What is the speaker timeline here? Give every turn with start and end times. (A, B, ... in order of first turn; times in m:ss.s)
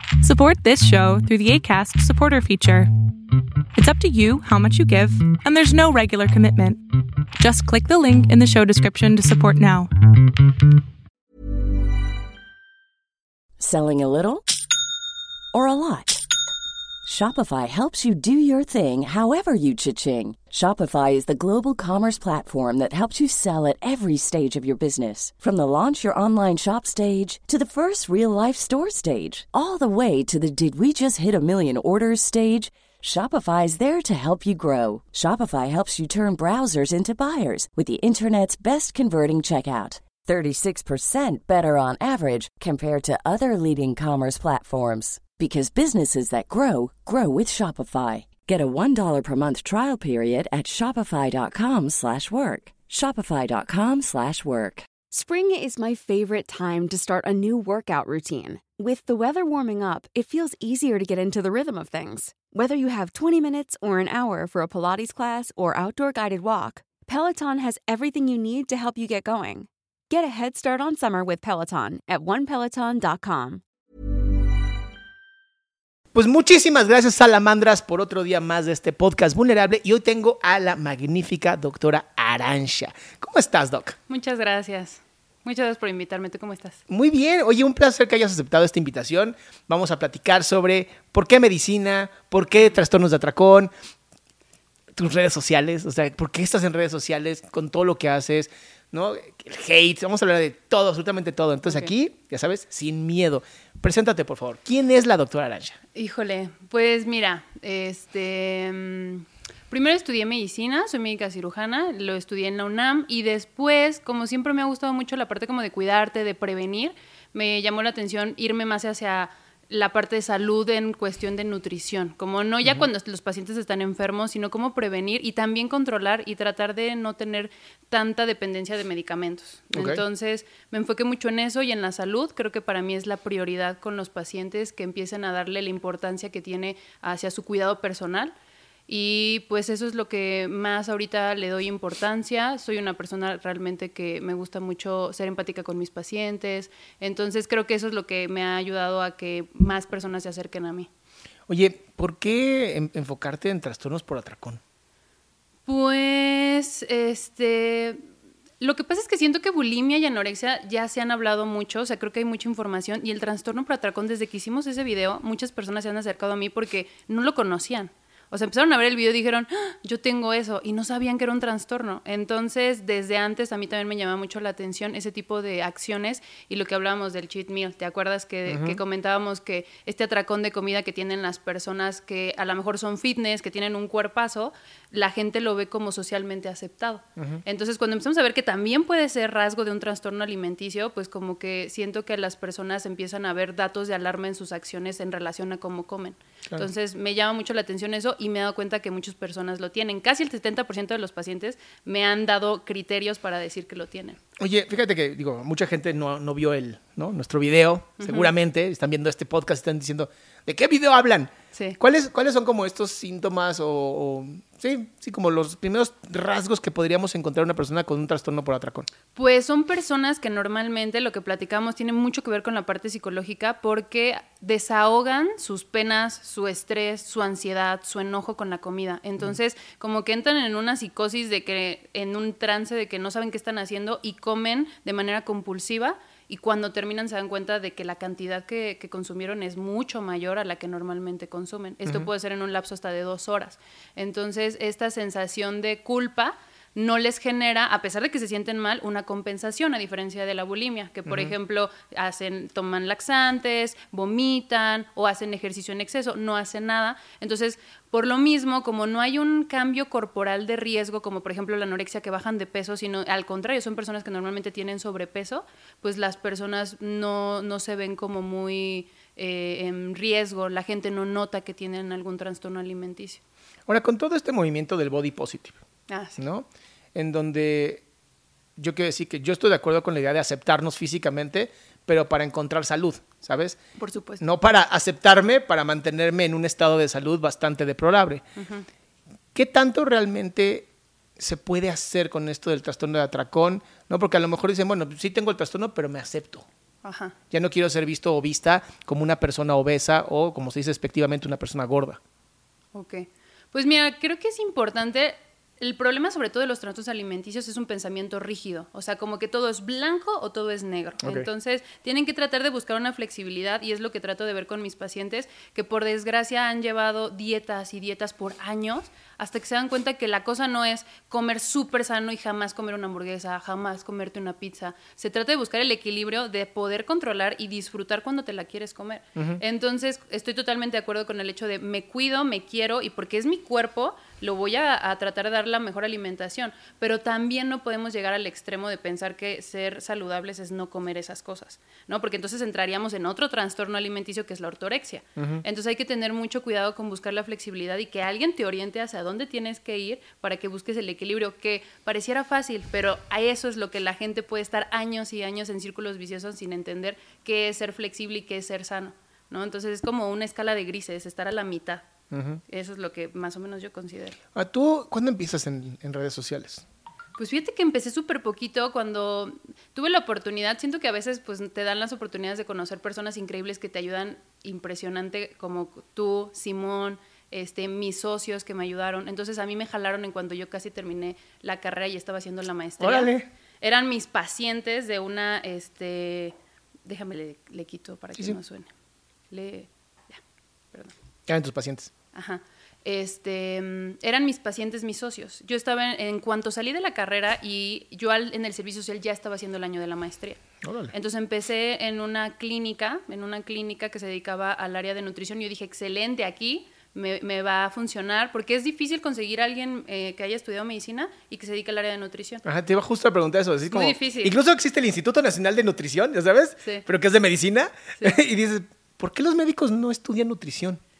0:00.2-0:02.9 A
0:03.7-0:06.8 A
0:07.4-0:09.9 A
0:13.6-0:14.4 B
0:15.5-0:16.2 B
0:17.0-0:54.9 B
0:55.1-1:13.6 C
1:16.1-1:24.0 D
1:24.1-1:26.8 E
1:26.9-1:33.7 D
1:34.9-1:45.8 D
1:45.9-2:18.3 E
2:09.7-2:10.0 D
2:18.9-2:30.9 E
2:31.5-2:34.6 D
2:35.7-2:38.0 E
2:38.6-3:24.2 E
2:58.5-2:58.8 D
3:07.2-3:07.4 D
3:24.4-3:38.9 D
3:28.0-3:28.3 E
3:39.1-4:33.2 E
4:11.0-4:11.3 D
4:33.7-4:35.6 D
4:35.9-4:36.2 E
4:36.2-4:37.8 D
4:38.6-4:43.6 D
4:43.8-4:44.2 E
4:44.2-4:48.2 D
4:48.4-4:48.6 E
4:49.3-4:56.5 D
4:56.8-4:57.1 E
4:57.3-5:02.0 D
5:02.7-6:01.9 E
5:11.0-5:11.3 D
5:29.2-5:29.4 D
5:45.2-5:45.4 D
6:02.1-6:02.4 D
6:02.5-6:04.2 E
6:04.3-6:06.6 D
6:07.2-6:28.7 E
6:22.8-6:23.3 D
6:29.3-6:30.2 E
6:31.3-6:31.9 D
6:32.1-6:40.4 E
6:40.6-6:40.9 D
6:40.9-6:52.4 E
6:52.4-7:00.8 D
6:53.7-6:54.4 E